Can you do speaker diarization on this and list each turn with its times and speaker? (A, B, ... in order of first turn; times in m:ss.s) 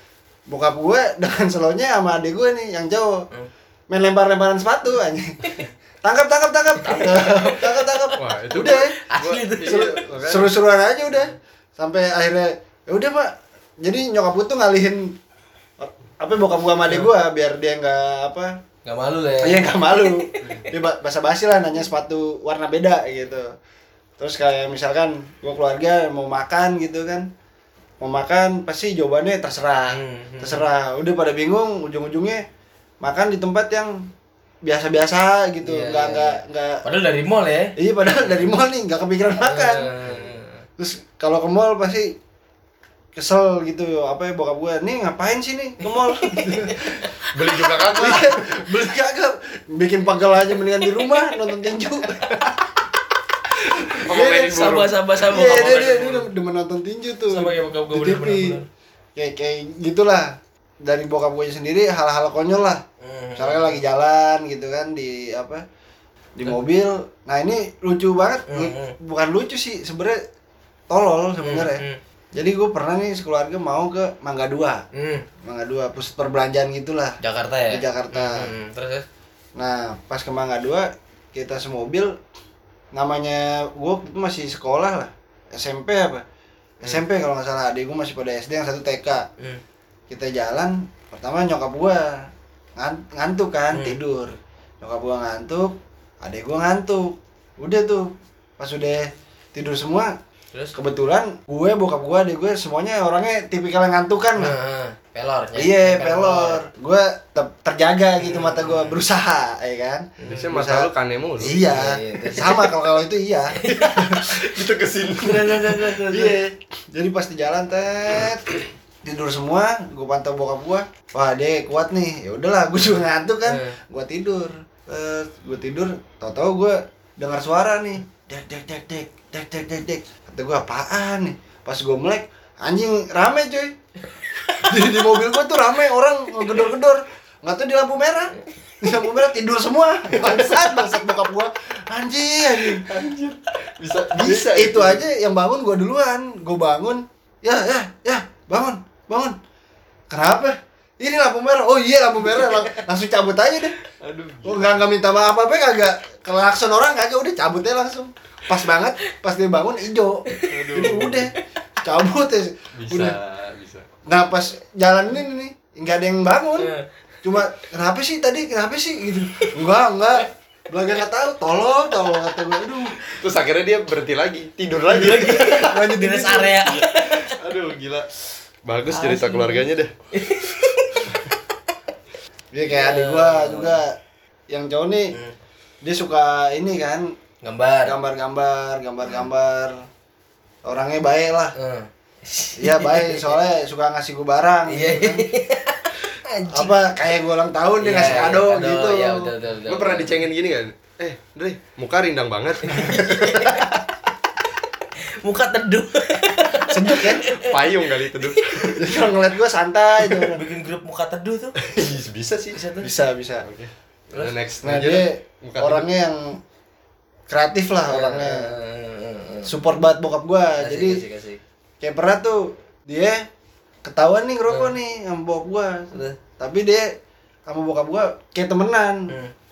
0:00.5-0:03.3 A
0:03.9-0:08.9 A
0:06.8-0:10.0 B
0:08.2-0:10.5 C
0:09.6-0:15.2 A
0:15.8-0:18.6 A
0:16.9-0:17.1 B
0:18.8-0:20.7 B
0:19.4-0:23.5 A
0:24.2-0:27.3 A
0:28.0-0:32.4 A
0:29.9-0:30.6 B
0:33.0-0:34.1 A
0:34.6-0:36.8 A
0:35.6-0:38.3 B
0:37.8-0:39.9 A
0:39.4-0:40.6 B
0:40.8-0:42.2 A
0:43.2-0:47.1 A
0:45.9-0:47.8 B
0:47.3-0:48.6 C
0:47.7-0:52.6 A
0:50.8-0:51.2 B
0:53.8-0:58.6 A
0:54.0-0:54.9 C
0:54.1-0:56.3 B
0:57.3-0:58.6 B
0:59.2-1:02.8 A
1:03.0-1:03.8 B
1:03.4-1:05.6 A
1:06.4-1:10.2 A
1:08.5-1:08.9 B
1:10.9-1:11.8 A
1:11.4-1:12.0 B
1:12.3-1:14.8 A
1:14.9-1:15.2 B
1:15.4-1:17.2 A
1:17.2-1:19.0 B
1:17.7-1:18.5 A
1:19.6-1:22.1 A
1:22.9-1:26.2 A
1:26.8-1:29.3 A
1:30.1-1:40.1 A
1:33.7-1:34.0 B
1:40.7-1:44.6 A
1:44.4-1:46.6 B
1:45.6-1:54.4 A
1:48.2-1:49.0 B
1:50.2-1:50.5 B
1:50.2-1:51.5 C
1:51.4-1:52.7 B
1:53.6-1:54.2 B
1:53.7-1:56.0 C
1:55.2-2:13.7 A
1:55.3-1:56.4 B
2:03.4-2:03.8 B
2:14.3-2:14.7 B
2:14.6-2:23.0 A
2:22.6-2:25.0 C
2:24.1-2:29.4 A
2:30.1-2:33.8 A
2:34.0-2:34.9 C
2:34.4-2:41.3 A
2:40.3-2:41.4 B
2:40.5-2:41.2 C
2:41.8-2:43.2 A
2:42.8-2:43.9 C
2:44.1-2:46.7 A
2:46.6-2:46.8 B
2:47.2-2:53.0 A
2:53.1-2:55.8 C
2:54.9-2:57.3 B
2:55.1-2:56.6 A
2:56.6-2:58.1 C
2:58.6-3:01.2 C
2:58.9-3:01.4 B
3:02.5-3:04.0 A
3:02.7-3:03.8 B
3:04.5-3:05.2 A
3:05.8-3:07.1 A
3:07.4-3:07.9 B
3:07.8-3:09.8 A
3:10.6-3:11.5 A
3:11.6-3:13.4 B
3:12.6-3:15.3 A
3:14.7-3:16.9 B
3:16.5-3:19.3 A
3:17.8-3:20.2 B
3:19.7-3:23.6 C
3:22.6-3:23.8 B
3:25.0-3:29.0 B
3:26.6-3:27.2 A
3:27.2-3:28.8 C
3:28.7-3:30.4 A
3:30.0-3:31.6 B
3:31.6-3:32.6 C
3:32.5-3:32.9 B
3:32.8-3:33.4 A
3:33.4-3:35.9 C
3:34.6-3:36.4 A
3:37.3-3:38.5 A
3:37.9-3:39.6 B
3:39.4-3:41.0 A
3:40.6-3:41.4 B
3:41.8-3:43.2 A
3:43.8-3:46.9 A
3:44.5-3:44.7 B
3:45.9-3:46.2 B
3:47.5-3:49.1 A